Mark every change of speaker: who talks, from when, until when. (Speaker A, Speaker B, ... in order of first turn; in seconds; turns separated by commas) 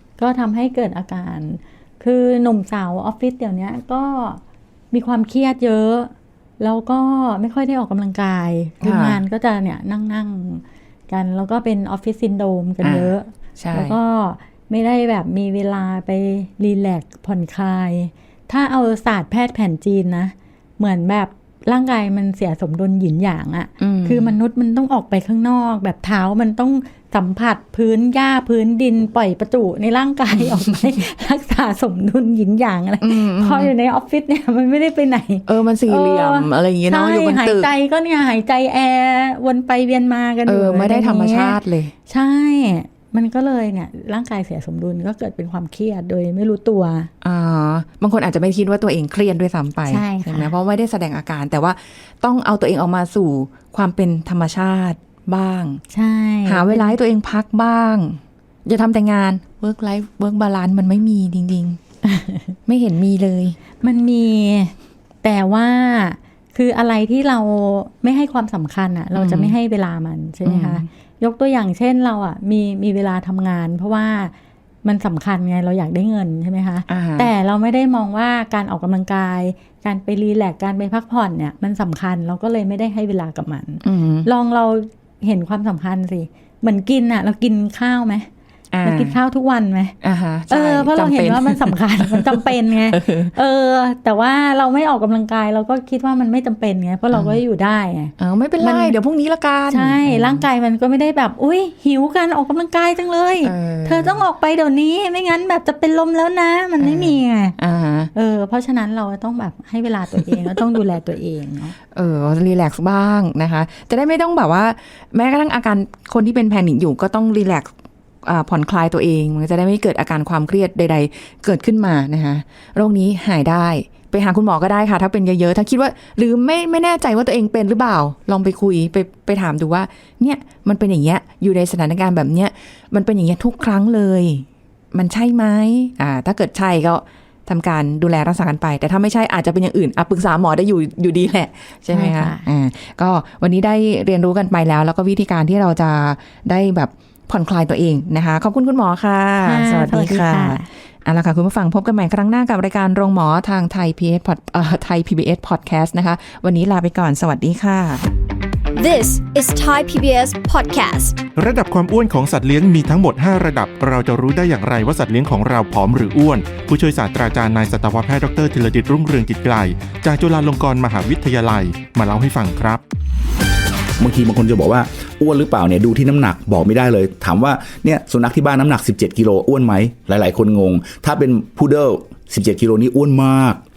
Speaker A: 0.2-47.1, Speaker B: 8.8-9.2, Speaker B: 12.8-13.9, Speaker B: 23.8-24.3, Speaker B: 30.4-30.7, Speaker B: 33.0-33.7, Speaker B: 35.5-37.7, Speaker B: 40.5-41.9, Speaker B: 47.2-55.8, Speaker A: 49.9-50.5, Speaker A: 55.9-57.0, Speaker B: 56.5-61.8, Speaker A: 62.0-62.5, Speaker B: 62.6-63.6, Speaker A: 63.8-88.3, Speaker B: 69.1-69.5, Speaker B: 70.4-70.8, Speaker B: 76.9-77.3, Speaker B: 83.8-84.3, Speaker B: 88.7-89.2, Speaker A: 88.8-89.9, Speaker B: 90.0-93.3, Speaker A: 90.5-99.0, Speaker B: 97.1-97.4, Speaker B: 98.2-100.4, Speaker A: 99.7-107.5, Speaker B: 103.4-104.2, Speaker B: 106.8-108.1, Speaker A: 108.1-111.8, Speaker B: 110.2-110.7, Speaker B: 111.9-117.7, Speaker B: 118.2-158.0, Speaker A: 141.9-142.4, Speaker A: 149.4-150.7, Speaker C: 158.8-161.2, Speaker D: 161.3-172.8, Speaker E: 174.0-183.6